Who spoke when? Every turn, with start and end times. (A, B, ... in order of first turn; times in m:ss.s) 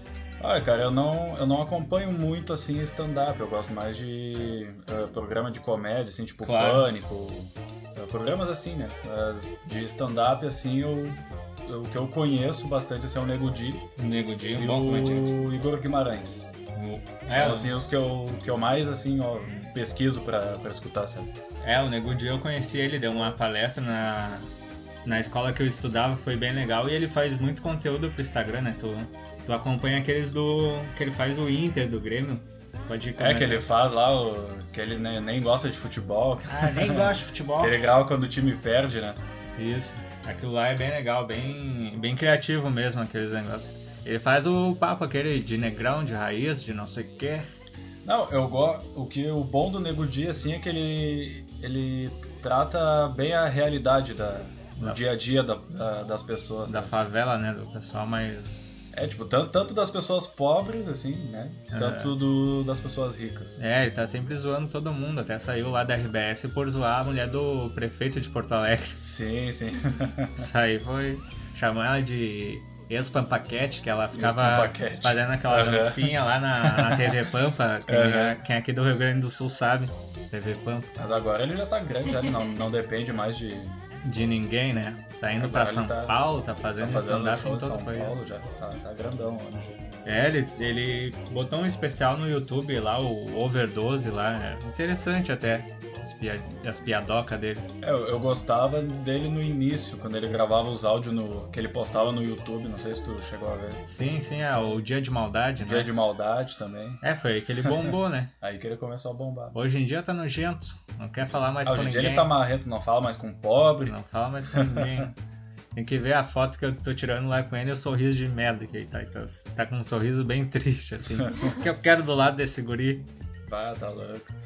0:00.4-0:13.9 A
0:06.4-0:06.9 B
0:14.0-0:15.4 B
0:14.5-0:16.5 A
0:16.7-0:17.7 B
0:17.3-0:21.3 A
0:21.6-0:24.5 B
0:25.0-0:33.7 B
0:33.2-0:39.2 A
0:36.4-0:37.8 B
0:39.6-0:47.5 B
0:48.0-0:56.9 A
0:56.7-0:58.9 B
0:58.9-1:03.6 A
1:01.7-1:02.2 B
1:03.6-1:09.0 B
1:09.0-1:10.5 A
1:10.4-1:20.9 B
1:14.2-1:17.2 A
1:17.9-1:18.4 A
1:21.0-1:23.8 A
1:24.0-1:28.1 B
1:25.4-1:26.2 A
1:26.8-1:29.8 A
1:30.0-1:37.7 B
1:37.8-1:43.8 A
1:43.8-1:45.9 B
1:45.6-1:47.0 A
1:47.0-1:48.3 B
1:47.6-1:49.6 A
1:49.5-1:52.3 B
1:51.6-1:53.9 A
1:53.8-1:55.1 B
1:54.5-1:55.0 A
1:55.7-2:03.1 B
2:03.5-2:04.3 A